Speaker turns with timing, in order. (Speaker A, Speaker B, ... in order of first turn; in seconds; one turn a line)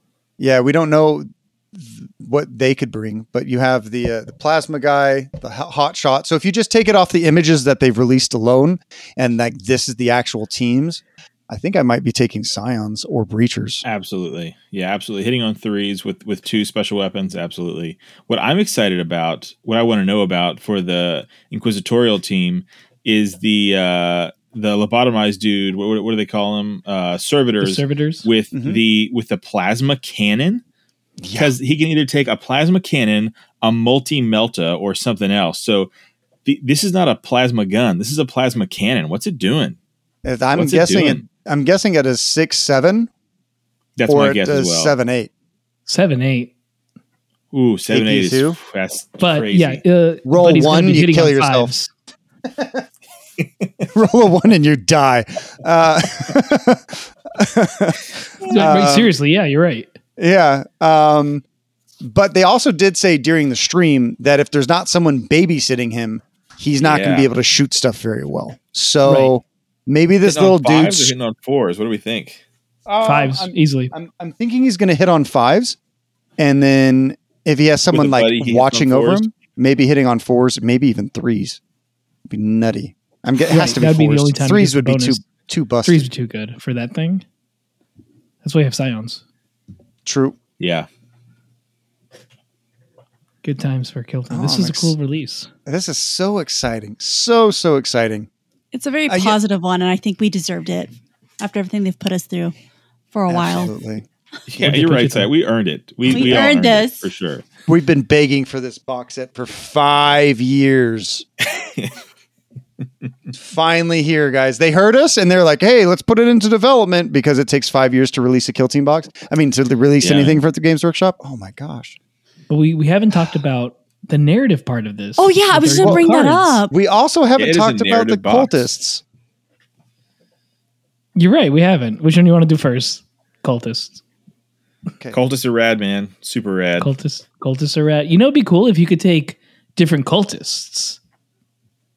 Speaker A: 0.4-13.8
Speaker B: 13.8-30.6
Speaker C: 27.6-28.3
Speaker A: 28.5-28.8
Speaker A: 31.2-31.5
Speaker B: 31.3-35.9
Speaker B: 36.5-39.8
Speaker A: 40.2-43.1
Speaker B: 40.5-41.2
Speaker B: 44.0-44.9
Speaker A: 44.1-45.3
Speaker C: 45.9-46.5
Speaker B: 47.5-49.8
Speaker A: 47.9-48.6
Speaker C: 49.2-51.9
Speaker A: 50.2-51.7
Speaker A: 52.6-52.8
Speaker B: 53.4-53.9
Speaker A: 53.9-58.0
Speaker C: 58.5-59.9
Speaker A: 58.5-59.1
Speaker A: 60.2-61.4
Speaker A: 62.0-71.1
Speaker B: 66.8-67.3
Speaker C: 69.0-69.3
Speaker B: 70.2-72.4
Speaker A: 72.9-75.8
Speaker C: 73.0-73.9
Speaker A: 76.4-81.6
Speaker B: 77.9-79.2
Speaker A: 82.3-86.0
Speaker C: 83.5-85.2
Speaker C: 85.8-87.2
Speaker C: 88.4-89.2
Speaker A: 90.0-90.4
Speaker B: 90.6-90.9
Speaker C: 93.4-95.5
Speaker A: 94.3-94.9
Speaker A: 95.7-98.3
Speaker D: 98.7-102.5
Speaker A: 99.1-99.4
Speaker D: 103.1-103.7
Speaker A: 103.3-104.0
Speaker B: 104.5-107.4
Speaker C: 104.6-105.3
Speaker D: 106.1-107.1
Speaker A: 106.1-106.4
Speaker A: 107.7-111.2
Speaker B: 111.4-111.9
Speaker A: 113.4-122.0
Speaker B: 120.0-120.4
Speaker C: 122.5-126.6
Speaker D: 125.2-126.7
Speaker A: 125.8-126.2
Speaker A: 126.7-129.0
Speaker B: 127.3-128.7
Speaker C: 131.2-134.0
Speaker B: 135.1-136.9
Speaker C: 136.8-141.0